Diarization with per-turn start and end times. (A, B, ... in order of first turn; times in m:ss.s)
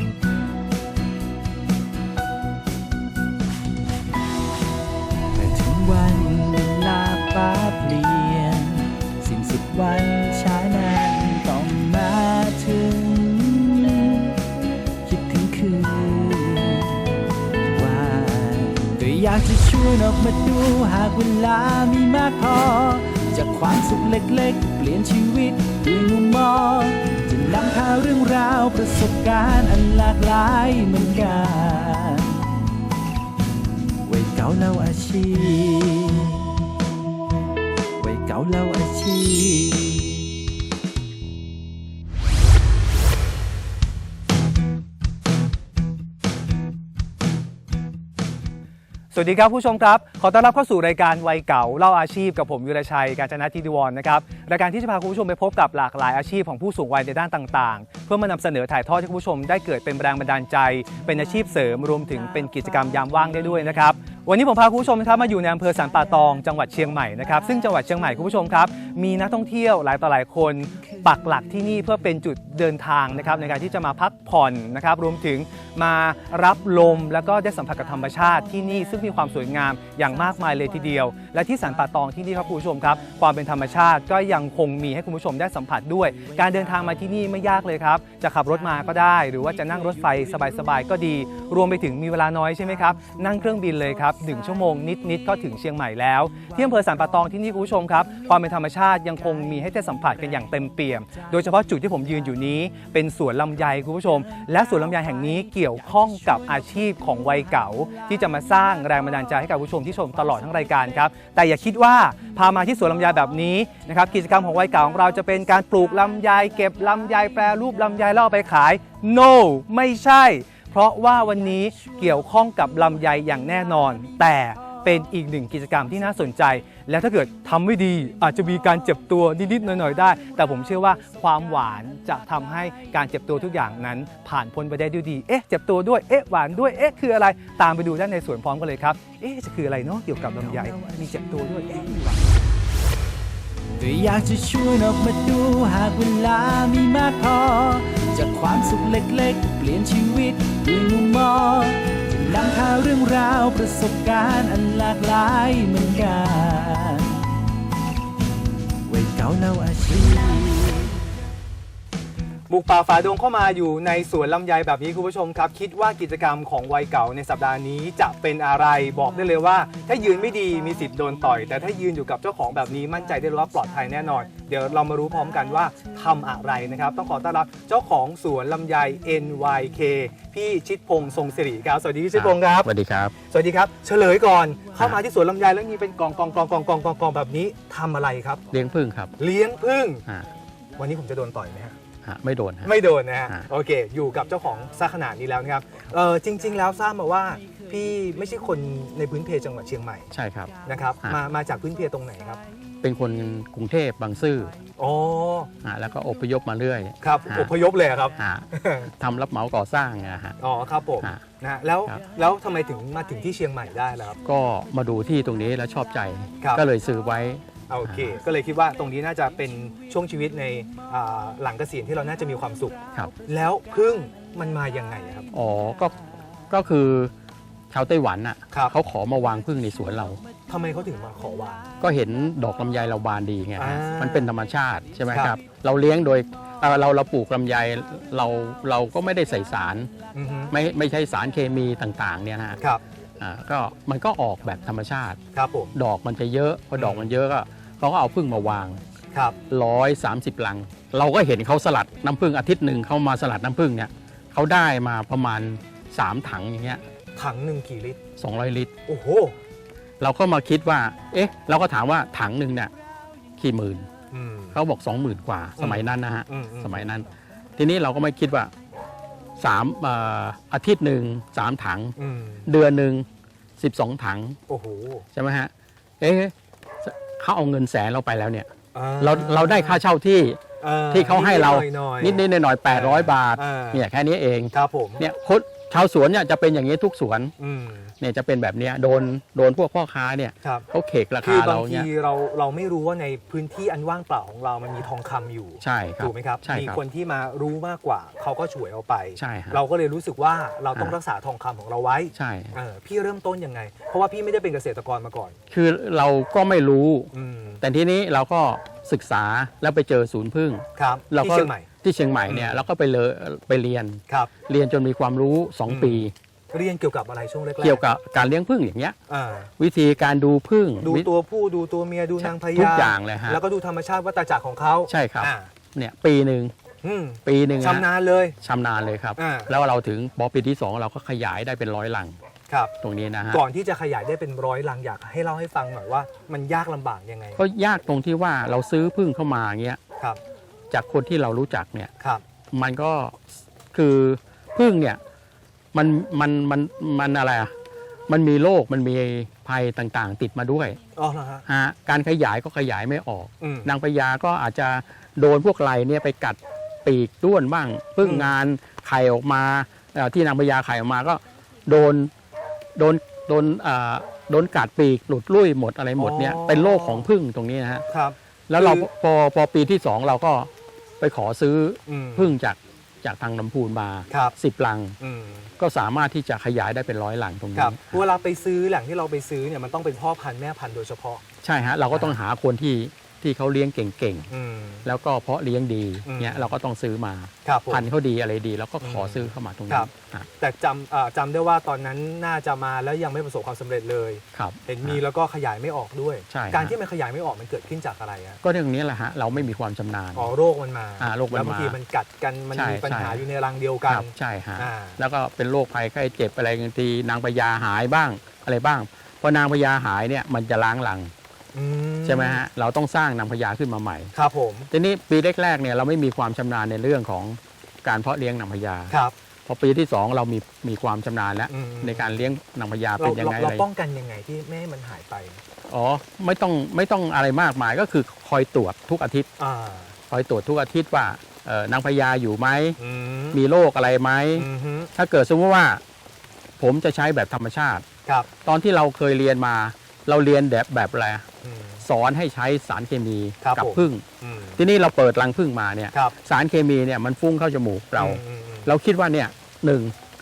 0:05.3-0:14.3 A
0:15.0-0:17.0 A
0:17.7-0:32.5 A
0:34.0-0:36.5 A
0:38.0-0:40.3 A
0:49.1-2:22.2 B
2:20.5-2:22.2 A
2:23.8-2:37.2 A
2:38.8-2:41.0 A
2:42.5-3:02.7 B
3:02.1-3:03.1 C
3:03.3-3:08.4 B
3:08.5-3:09.1 C
3:09.2-3:10.0 B
3:10.8-3:11.8 B
3:12.0-3:12.7 C
3:12.6-3:20.1 B
3:20.1-3:21.2 C
3:20.6-3:22.4 B
3:22.8-3:24.5 C
3:24.8-3:25.5 B
3:25.6-3:27.5 C
3:27.0-3:28.9 B
3:28.2-3:30.4 C
3:30.4-3:34.2 B
3:34.2-3:38.2 C
3:37.7-3:45.3 B
3:45.3-3:46.0 C
3:46.5-3:47.1 C
3:47.7-3:50.2 C
3:50.5-3:51.7 B
3:51.8-3:59.9 C
3:53.6-3:54.3 B
3:55.1-3:55.3 B
4:00.1-4:00.5 B
4:00.5-4:02.6 C
4:03.2-4:05.2 C
4:05.3-4:05.7 B
4:05.7-4:08.8 C
4:06.8-4:07.1 B
4:09.5-4:16.8 C
4:17.2-4:18.0 B
4:18.2-4:18.7 C
4:18.8-4:19.3 B
4:20.0-4:22.7 C
4:23.4-4:23.9 C
4:24.1-4:24.6 B
4:24.5-4:28.5 C
4:25.6-4:26.8 B
4:29.4-4:31.9 C
4:32.0-4:32.5 B
4:32.4-4:33.0 C
4:33.6-4:34.4 C
4:34.5-4:35.0 B
4:35.1-4:40.4 C
4:38.7-4:39.8 B
4:40.6-4:43.8 B
4:40.9-4:47.3 C
4:44.5-4:45.0 B
4:47.4-4:47.9 B
4:48.0-4:51.9 C
4:51.2-5:05.4 B
4:55.6-4:56.8 C
4:59.2-4:59.6 C
5:02.1-5:02.5 C
5:05.5-5:16.1 C
5:07.1-5:07.6 B
5:10.7-5:11.7 B
5:12.3-5:12.6 B
5:15.7-5:17.8 B
5:17.6-5:19.0 C
5:19.1-5:19.5 B
5:19.6-5:21.1 C
5:20.8-5:25.5 B
5:22.2-5:23.4 C
5:24.9-5:26.5 C
5:26.8-5:28.3 B
5:27.2-5:27.9 C
5:28.4-5:32.2 C
5:29.2-5:29.5 B
5:32.8-5:33.4 C
5:33.3-5:37.4 B
5:37.4-5:39.8 C
5:40.7-5:41.9 C
5:42.5-5:45.0 C
5:45.7-5:47.5 C
5:48.1-5:50.8 C
5:51.0-5:51.4 B
5:51.5-6:02.1 C
5:53.4-5:53.7 B
5:58.0-5:58.3 B
6:02.7-6:07.8 C
6:06.0-6:07.1 B
6:07.9-6:08.9 B
6:08.5-6:15.0 C
6:11.9-6:12.3 B
6:15.0-6:15.5 B
6:15.6-6:18.0 C
6:17.5-6:21.2 B
6:21.4-6:24.3 C
6:21.9-6:22.2 B
6:24.3-6:24.8 B
6:24.8-6:30.2 C
6:26.0-6:26.5 B
6:27.4-6:27.8 B
6:28.8-6:38.4 B
6:34.3-6:35.0 C
6:36.3-6:36.8 C
6:38.4-6:40.3 C
6:40.1-6:45.0 B
6:41.0-6:41.8 C
6:42.5-6:43.2 C
6:43.9-6:51.1 C
6:51.5-6:52.4 B
6:52.0-6:54.1 C
6:54.1-6:54.7 B
6:54.7-6:58.9 C
6:59.5-7:03.6 C
7:01.5-7:02.3 B
7:03.0-7:05.4 B
7:05.7-7:09.3 C
7:09.4-7:09.9 B
7:10.1-7:12.8 C
7:12.8-7:13.4 B
7:13.3-7:15.8 C
7:14.3-7:14.9 B
7:16.6-7:17.8 C
7:18.4-7:21.3 C
7:21.4-7:21.8 B
7:21.8-7:24.0 C
7:23.4-7:24.6 B
7:24.6-7:29.9 C
7:28.0-7:28.7 B